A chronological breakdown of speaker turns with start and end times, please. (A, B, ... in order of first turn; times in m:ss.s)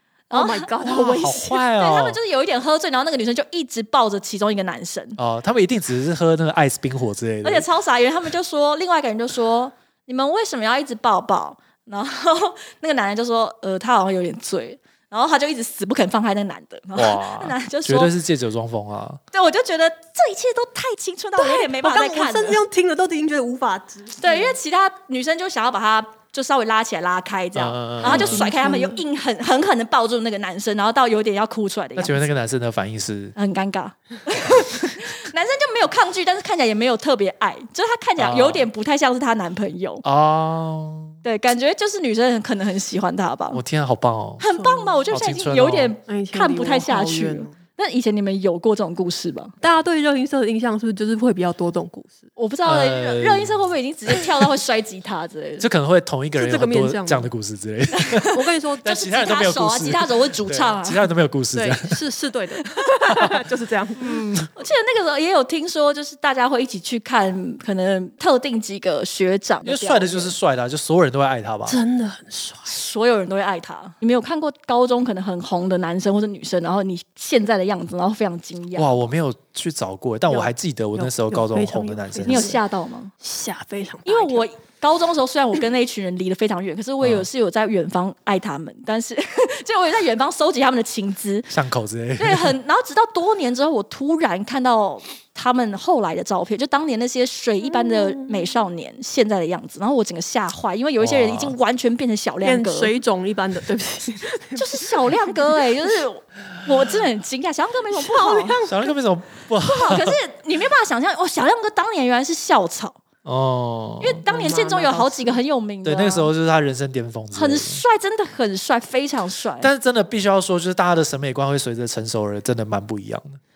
0:00.3-0:01.3 A
0:00.3-0:05.2 B
0:00.8-0:02.2 C
0:05.2-0:07.6 C
0:07.4-0:18.1 B
0:16.9-0:19.2 C
0:19.3-0:22.6 B
0:21.3-0:24.5 A
0:24.2-0:32.3 B
0:27.6-0:28.5 C
0:28.0-0:29.0 A
0:32.0-0:33.3 C
0:33.4-0:40.0 B
0:38.2-0:38.7 C
0:40.0-0:41.2 C
0:41.2-0:43.6 B
0:43.5-0:44.4 C
0:44.4-0:49.5 B
0:44.5-0:45.1 A
0:45.1-0:45.9 C
0:46.1-0:47.5 A
0:49.6-0:52.3 A
0:52.4-0:55.7 B
0:52.6-0:54.4 C
0:55.6-1:02.0 C
0:56.3-0:57.3 A
0:57.9-1:01.0 B
0:58.3-0:59.0 A
1:01.5-1:04.2 A
1:02.6-1:03.3 B
1:04.0-1:04.5 C
1:04.5-1:10.3 B
1:09.6-1:11.8 C
1:11.7-1:12.8 A
1:12.7-1:19.0 B
1:18.7-1:22.6 C
1:20.3-1:22.6 A
1:22.2-1:23.1 B
1:23.2-1:24.5 A
1:24.0-1:31.5 B
1:27.0-1:27.2 C
1:31.5-1:32.6 C
1:32.2-1:42.9 B
1:37.6-1:38.5 A
1:41.0-1:41.6 C
1:42.4-1:45.4 A
1:44.6-1:48.6 B
1:47.9-1:48.9 A
1:48.6-1:50.2 C
1:49.6-1:53.0 B
1:53.2-1:54.2 C
1:54.0-1:56.3 B
1:54.3-1:55.4 A
1:55.8-1:57.8 C
1:57.3-1:59.7 B
1:59.6-2:03.4 C